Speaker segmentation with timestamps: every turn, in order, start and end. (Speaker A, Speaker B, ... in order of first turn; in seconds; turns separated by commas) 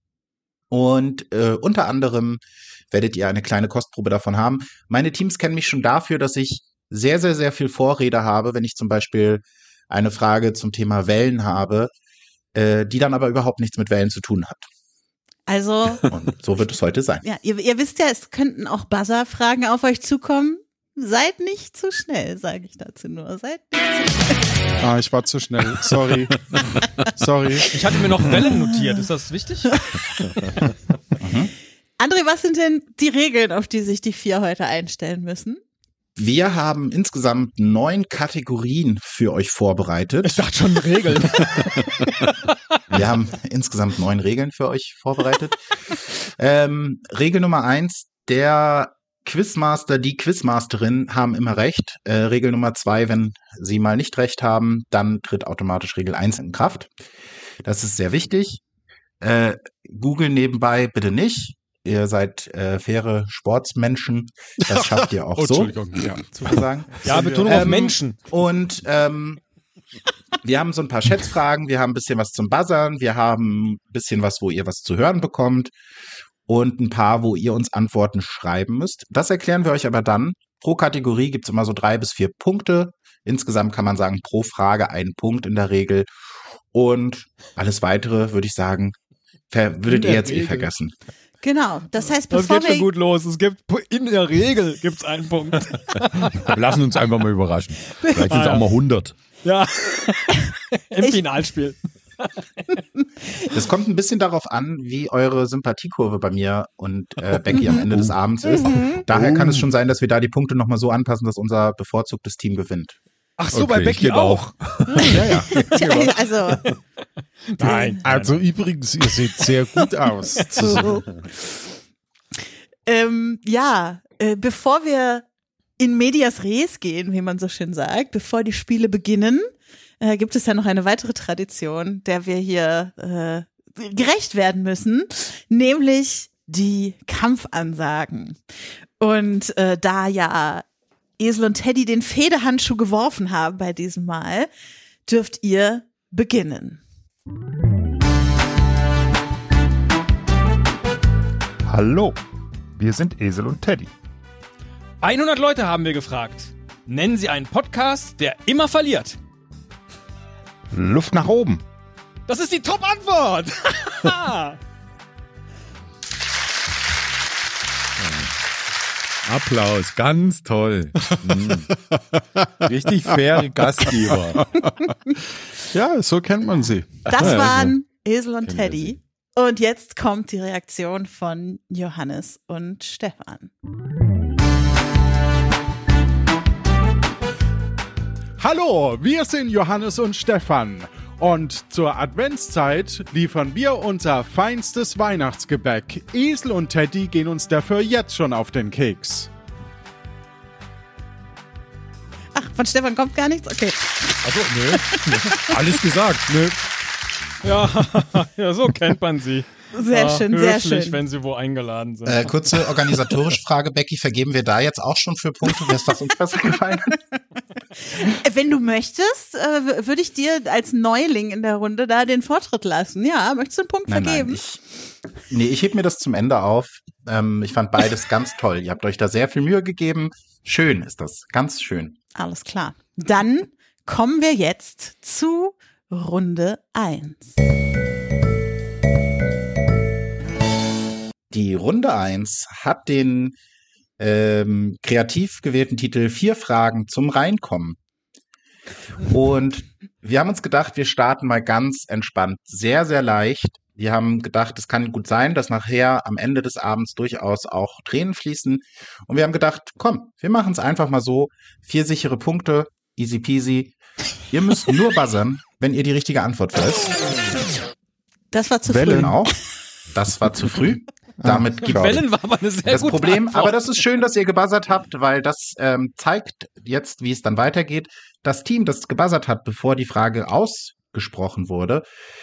Speaker A: 0.7-11.9, Speaker A: 12.6-14.7, Speaker B: 15.5-16.0, Speaker A: 16.1-17.2, Speaker B: 17.2-24.4, Speaker C: 24.8-26.4, Speaker C: 27.2-27.7, Speaker D: 27.7-29.8, Speaker A: 31.2-31.5, Speaker B: 32.0-35.6, Speaker A: 36.2-40.5, Speaker D: 40.2-41.8, Speaker A: 42.9-56.9, Speaker A: 57.6-58.6, Speaker A: 59.2-69.4, Speaker C: 65.3-67.8, Speaker D: 67.0-68.2, Speaker A: 70.4-75.7, Speaker A: 76.5-86.1, Speaker A: 86.7-89.0, Speaker A: 89.5-90.9, Speaker D: 89.9-90.7, Speaker B: 91.4-92.9, Speaker D: 92.3-96.5, Speaker E: 96.3-99.1, Speaker D: 98.3-98.7, Speaker D: 99.4-102.6, Speaker A: 103.5-113.0, Speaker E: 107.3-108.1, Speaker B: 107.5-107.9, Speaker E: 108.9-109.3, Speaker D: 113.4-114.5, Speaker E: 113.5-115.3, Speaker B: 114.9-116.6, Speaker D: 115.0-116.7, Speaker A: 115.1-115.5, Speaker D: 117.6-118.0, Speaker C: 117.6-120.9, Speaker E: 118.0-118.4, Speaker B: 120.6-121.1, Speaker B: 122.9-125.2, Speaker B: 125.8-129.5, Speaker B: 130.0-138.4, Speaker B: 139.0-140.6, Speaker B: 141.2-144.5, Speaker B: 145.1-146.8, Speaker F: 151.7-152.2, Speaker F: 152.8-153.9, Speaker D: 155.0-159.2, Speaker F: 160.7-161.6, Speaker D: 162.3-164.6, Speaker E: 168.0-168.3, Speaker E: 169.2-171.7, Speaker E: 172.7-174.4, Speaker C: 173.8-174.7, Speaker C: 175.7-177.0, Speaker E: 177.1-177.8, Speaker B: 177.1-183.5, Speaker E: 178.5-179.0, Speaker C: 188.4-199.3, Speaker B: 202.3-204.2, Speaker E: 204.3-206.6, Speaker D: 207.4-212.3, Speaker B: 209.7-211.0, Speaker A: 212.1-217.0, Speaker B: 217.9-224.4, Speaker A: 223.9-224.6, Speaker A: 225.3-232.0, Speaker B: 232.2-237.3, Speaker A: 241.3-243.3, Speaker A: 244.0-247.8, Speaker A: 249.0-263.8, Speaker A: 264.3-267.0, Speaker B: 268.3-269.2, Speaker F: 268.7-269.2, Speaker A: 268.9-269.3, Speaker A: 269.9-272.0, Speaker F: 271.2-272.0, Speaker D: 271.6-273.6, Speaker A: 272.7-281.9